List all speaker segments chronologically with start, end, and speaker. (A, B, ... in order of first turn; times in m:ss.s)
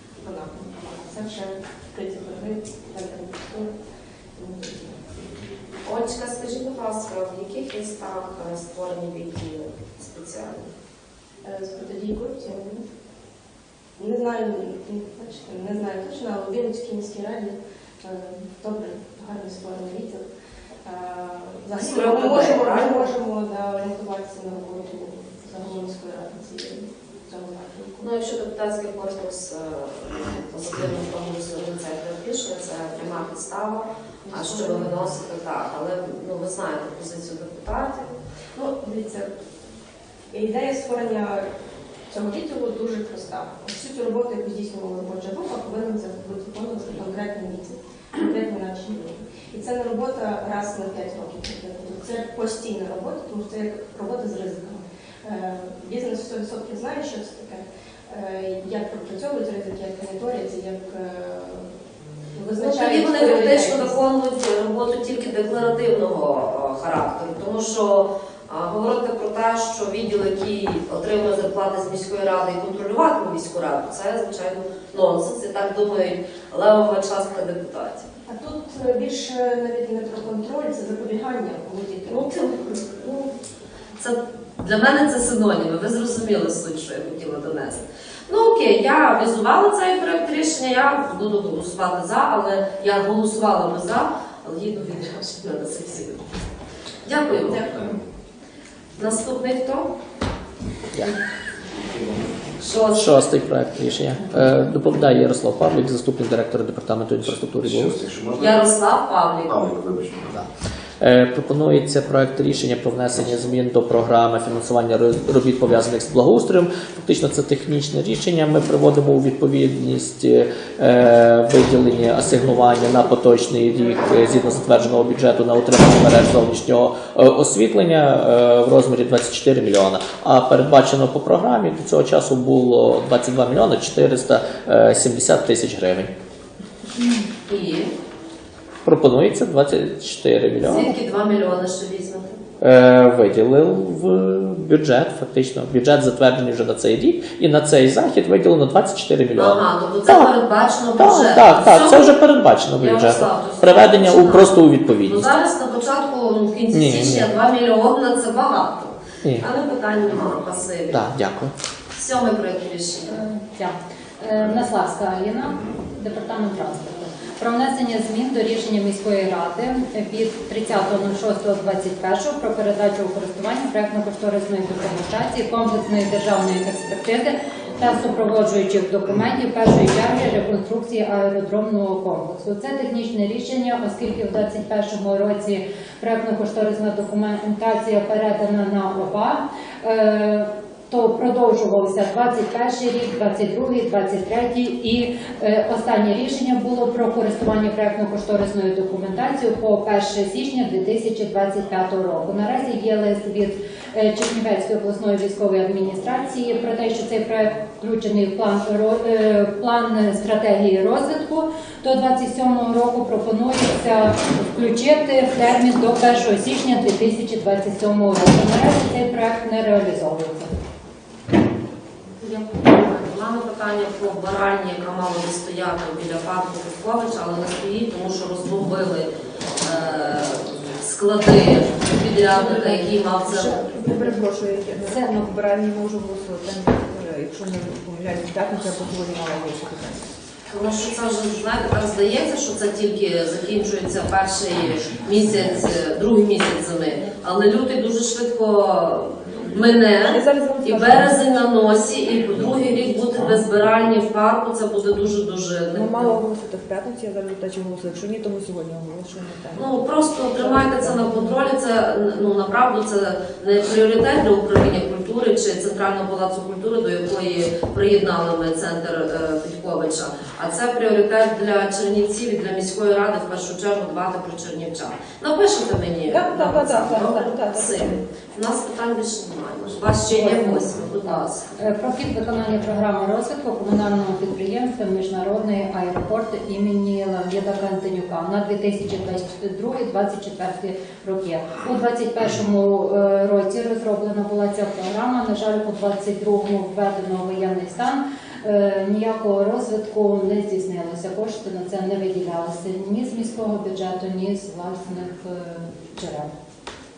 0:00.2-0:03.8 A
0:04.4-0:05.4 A
0:05.8-0:10.7 B
0:11.4-0:12.8 A
0:14.0-0:20.3 A
0:20.8-0:28.1 A
0:21.8-0:23.1 B
0:28.0-0:38.2 B
0:34.2-0:34.9 A
0:38.5-0:39.3 A
0:40.3-0:41.5 A
0:42.1-1:01.7 A
1:02.3-1:04.0 A
1:02.6-1:18.1 B
1:18.2-1:22.6 A
1:22.1-1:23.3 B
1:24.0-1:36.3 B
1:37.0-1:37.9 B
1:37.3-1:38.0 C
1:39.0-1:39.9 B
1:41.7-1:42.6 C
1:42.6-1:43.3 B
1:42.9-1:48.1 D
1:47.3-1:48.7 C
1:48.4-1:49.6 B
1:49.5-1:50.4 C
1:51.0-2:16.1 D
2:17.5-2:17.9 B
2:18.8-2:20.9 D
2:20.6-2:22.4 B
2:22.6-2:30.3 D
2:29.4-2:32.2 B
2:31.0-2:35.3 D
2:32.8-2:41.1 B
2:36.7-2:37.4 D
2:40.1-2:40.7 C
2:40.9-2:41.5 D
2:42.0-2:43.2 B
2:43.1-3:40.5 E
2:44.3-2:44.7 C
2:45.4-2:45.9 C
3:42.2-3:49.1 B
3:49.6-3:53.7 B
3:52.3-4:00.1 F
3:54.8-3:55.2 E
4:00.5-4:16.2 B
4:09.1-4:09.8 C
4:10.0-4:11.4 F
4:12.3-4:13.7 C
4:15.7-4:21.4 F
4:19.6-4:41.5 B
4:36.1-4:38.0 F
4:40.1-5:06.3 E